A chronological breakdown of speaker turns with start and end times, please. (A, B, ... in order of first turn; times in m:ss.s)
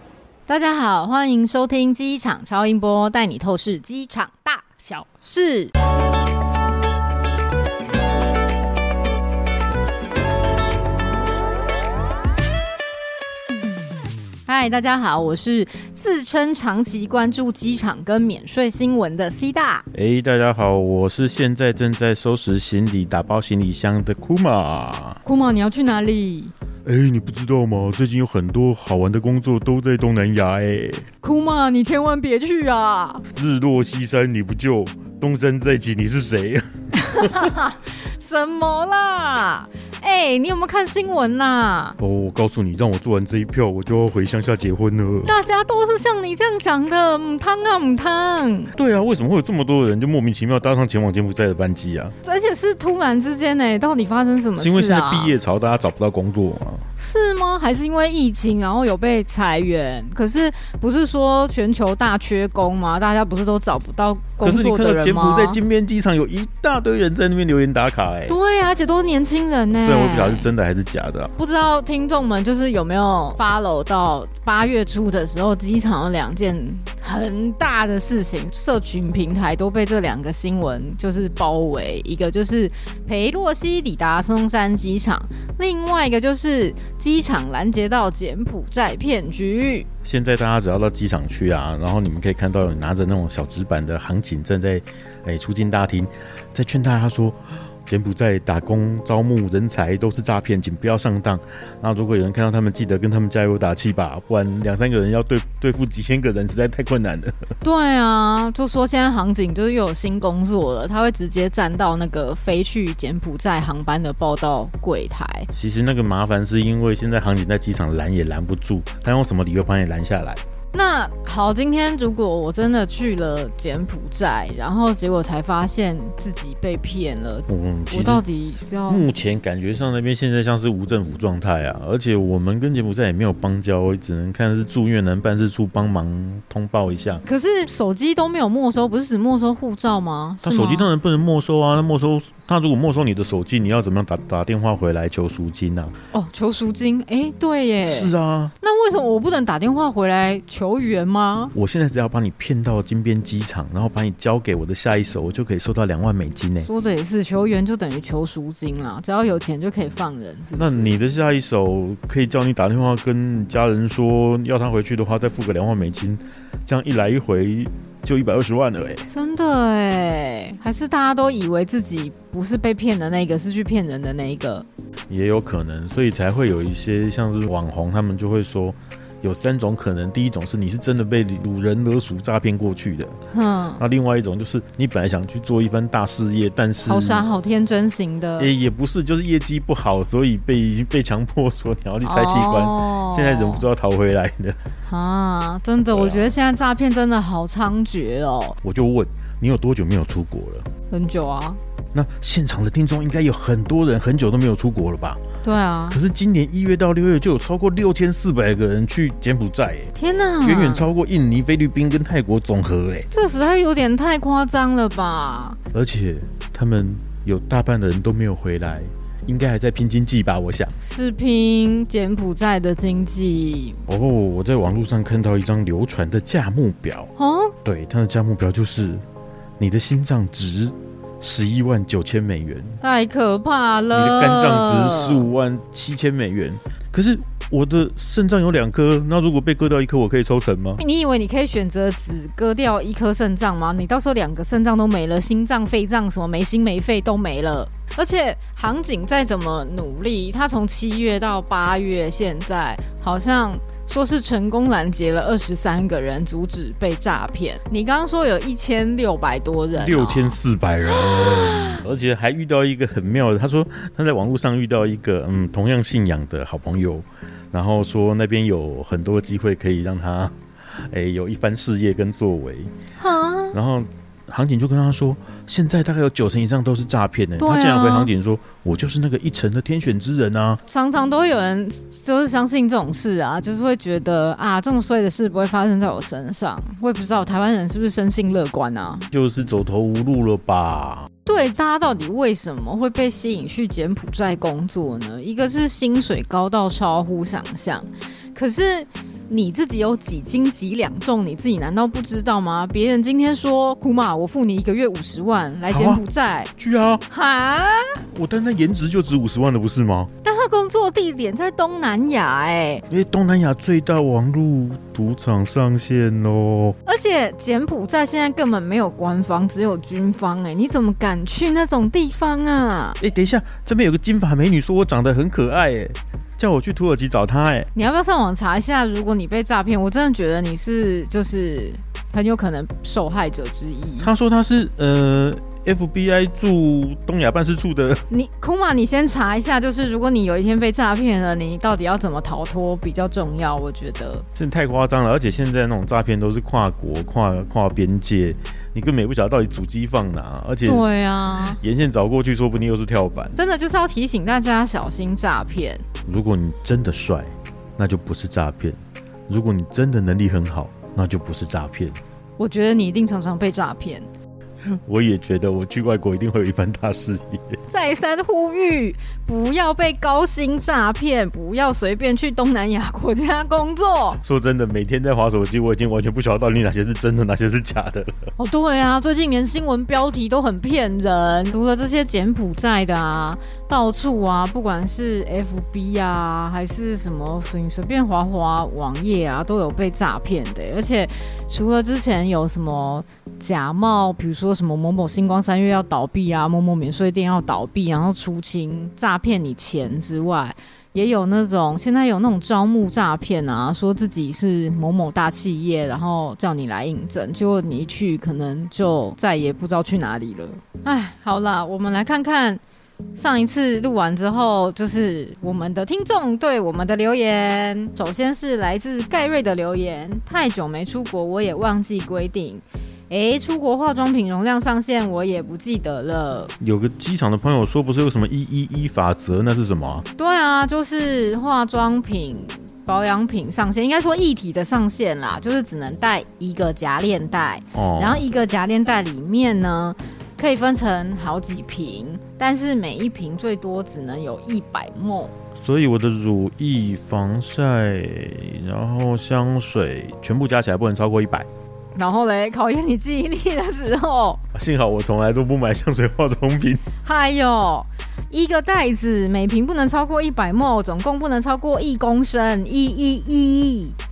0:00.5-0:05.7 A
0:14.4-0:19.9 A
0:19.9-0:25.2 B
0:25.2-0:26.5 A
0:26.8-0:31.0 B
0:31.2-0:33.2 A
0:33.4-0:37.5 B
0:37.1-0:42.0 A
0:42.0-0:45.3 B
0:45.2-0:48.7 A
0:48.8-0:52.1 B
0:52.2-0:55.3 A
0:54.6-0:56.8 B
0:57.0-1:05.6 A
1:04.4-1:08.4 B
1:08.3-1:10.5 A
1:09.8-1:11.3 B
1:11.4-1:29.9 A
1:30.0-1:47.4 B
1:47.6-1:55.5 A
1:55.5-2:00.4 B
2:00.7-2:09.1 A
2:07.5-2:08.2 B
2:08.9-2:17.2 B
2:17.2-2:20.9 A
2:20.4-2:25.9 B
2:26.1-2:31.6 A
2:27.9-2:28.5 B
2:31.6-2:36.7 B
2:36.6-2:41.0 A
2:40.6-2:49.1 B
2:49.1-2:54.7 A
2:55.1-3:03.2 B
3:03.3-3:03.8 A
3:03.8-3:07.2 B
3:06.8-3:08.5 A
3:08.4-3:14.6 B
3:12.0-3:13.7 A
3:14.9-3:18.6 A
3:15.9-3:16.4 B
3:18.6-3:20.7 B
3:20.9-3:21.6 A
3:21.9-3:25.2 B
3:25.4-3:26.0 A
3:25.9-3:29.9 B
3:30.0-3:30.9 A
3:30.4-3:33.1 B
3:33.1-3:35.6 A
3:35.7-3:40.8 B
3:40.8-3:43.8 A
3:43.9-3:47.1 B
3:47.2-3:47.5 A
3:47.6-3:49.0 B
3:49.6-3:52.8 B
3:52.8-3:55.3 A
3:53.9-4:00.8 B
4:00.8-4:20.4 A
4:19.8-4:32.7 B
4:21.4-4:21.8 A
4:33.0-4:33.6 A
4:33.5-4:40.6 B
4:37.4-4:38.1 A
4:40.6-4:49.1 A
4:49.1-4:51.1 B
4:51.2-5:06.5 A
5:05.7-5:06.0 B
5:06.6-5:07.0 B
5:07.1-5:08.0 A
5:08.0-5:10.1 B
5:10.2-5:12.8 A
5:12.9-5:16.8 B
5:16.8-5:23.0 A
5:23.0-5:27.7 B
5:27.8-5:34.1 A
5:34.0-5:38.0 B
5:38.1-5:44.2 A
5:44.4-5:50.9 B
5:50.6-5:51.6 A
5:51.6-5:53.4 B
5:53.4-5:55.8 A
5:56.1-6:02.0 B
6:02.4-6:04.1 A
6:04.6-6:07.6 B
6:07.7-6:14.2 A
6:14.2-6:18.3 B
6:18.4-6:52.6 A
6:53.1-7:06.5 A
7:06.6-7:10.0 B
7:10.2-7:25.3 A
7:17.7-7:18.2 B
7:25.6-7:31.5 B
7:32.0-7:34.4 A
7:34.5-7:36.8 B
7:37.0-7:44.0 A